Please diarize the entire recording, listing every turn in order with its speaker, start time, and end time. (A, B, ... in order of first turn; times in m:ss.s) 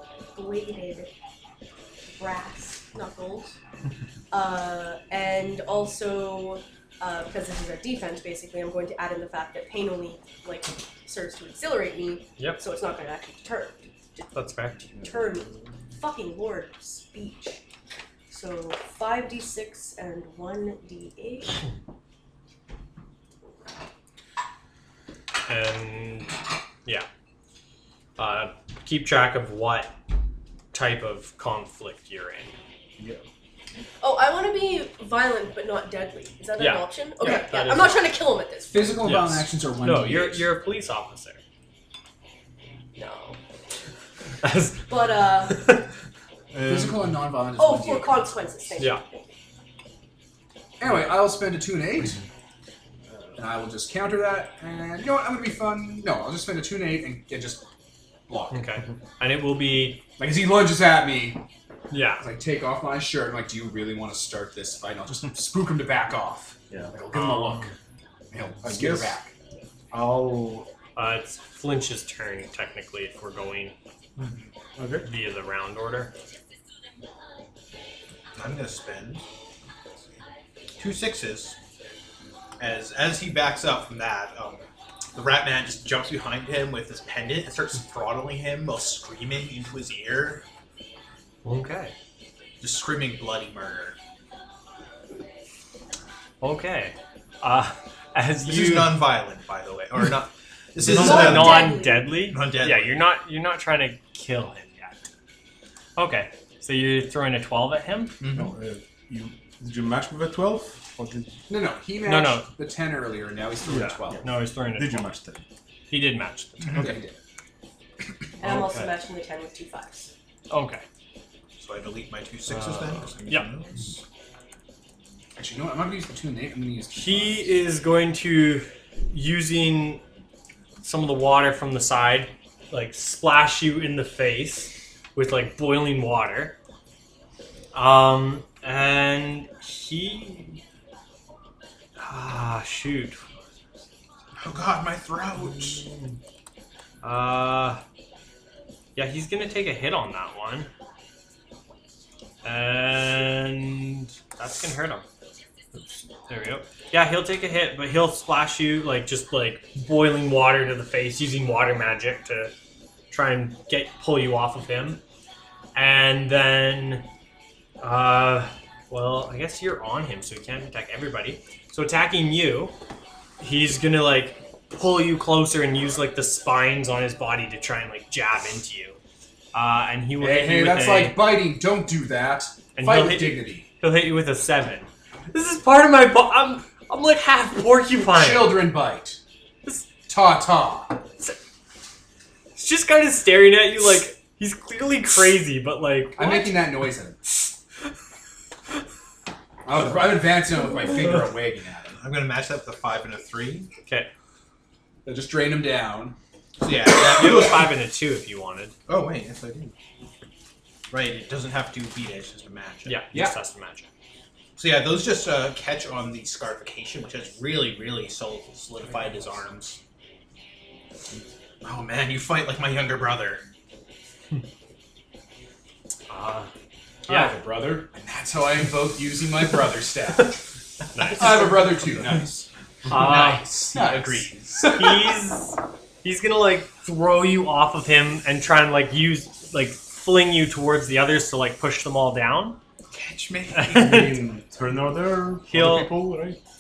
0:00.3-0:01.1 A
0:02.0-0:03.6 A
0:04.3-0:17.6 A
0:14.3-0:14.8 B
0:18.3-0:21.6 A
0:25.5-0:27.1 B
0:28.2-0:30.0 B
0:30.7-0:32.5 B
0:33.0-0:33.2 C
0:34.0-0:39.0 A
0:36.6-0:38.0 B
0:37.2-0:37.5 D
0:38.7-0:40.5 D
0:39.0-0:41.4 B
0:43.0-0:43.4 A
0:44.4-0:44.9 B
0:44.9-0:45.7 A
0:45.5-0:45.8 B
0:46.5-0:47.2 C
0:46.6-0:48.3 D
0:47.6-0:49.2 A
0:50.8-0:52.2 D
0:53.4-0:57.6 D
0:58.3-0:58.7 D
0:58.5-1:00.0 B
1:00.2-1:01.4 D
1:01.9-1:02.2 B
1:02.2-1:07.7 D
1:07.1-1:07.7 B
1:08.3-1:09.3 D
1:08.6-1:09.2 C
1:09.9-1:10.7 C
1:11.0-1:13.7 B
1:14.2-1:14.4 E
1:14.8-1:15.0 C
1:15.0-1:16.1 B
1:18.4-1:19.2 E
1:20.8-1:21.6 E
1:22.6-1:24.6 E
1:25.1-1:30.4 E
1:31.4-1:31.9 B
1:32.6-1:34.0 E
1:36.4-1:39.1 B
1:38.4-1:43.0 E
1:40.8-1:41.7 C
1:40.8-1:45.0 B
1:40.9-1:42.1 A
1:46.0-1:48.2 B
1:48.2-1:48.5 E
1:48.3-1:51.4 C
1:51.5-1:54.2 D
1:52.0-1:52.5 B
1:53.7-1:55.4 C
1:53.7-1:55.2 B
1:55.9-1:56.9 B
1:56.6-1:57.2 D
1:58.4-2:00.1 A
1:58.4-1:59.0 B
2:00.5-2:00.8 B
2:01.6-2:04.0 E
2:02.5-2:03.5 B
2:05.4-2:07.6 D
2:06.9-2:10.0 B
2:10.8-2:16.6 B
2:17.7-2:20.6 B
2:22.0-2:23.2 B
2:24.4-2:25.8 E
2:25.5-2:26.2 B
2:27.0-2:27.8 B
2:29.0-2:30.7 B
2:32.4-2:35.0 B
2:36.3-2:42.5 B
2:43.1-2:45.0 B
2:45.7-2:47.1 B
2:47.8-2:52.7 B
2:53.4-2:59.0 B
2:59.5-3:01.4 B
3:00.2-3:03.7 D
3:02.8-3:08.7 B
3:08.1-3:09.2 D
3:10.1-3:11.0 D
3:12.5-3:16.6 B
3:16.2-3:17.2 D
3:19.6-3:22.0 D
3:22.0-3:23.7 E
3:25.0-3:26.1 D
3:26.6-3:27.8 E
3:27.1-3:28.7 B
3:28.9-3:29.7 E
3:30.9-3:33.0 E
3:32.8-3:33.9 B
3:33.1-3:33.4 D
3:34.6-3:39.8 E
3:41.6-3:43.4 E
3:46.1-3:46.5 B
3:47.1-3:47.4 B
3:47.1-3:50.4 D
3:50.9-3:52.0 B
3:51.1-3:52.5 D
3:52.9-3:53.6 B
3:52.9-3:54.8 E
3:53.0-3:55.1 D
3:54.7-4:02.6 B
4:02.9-4:04.0 E
4:03.5-4:04.2 B
4:03.7-4:06.4 C
4:05.5-4:05.9 B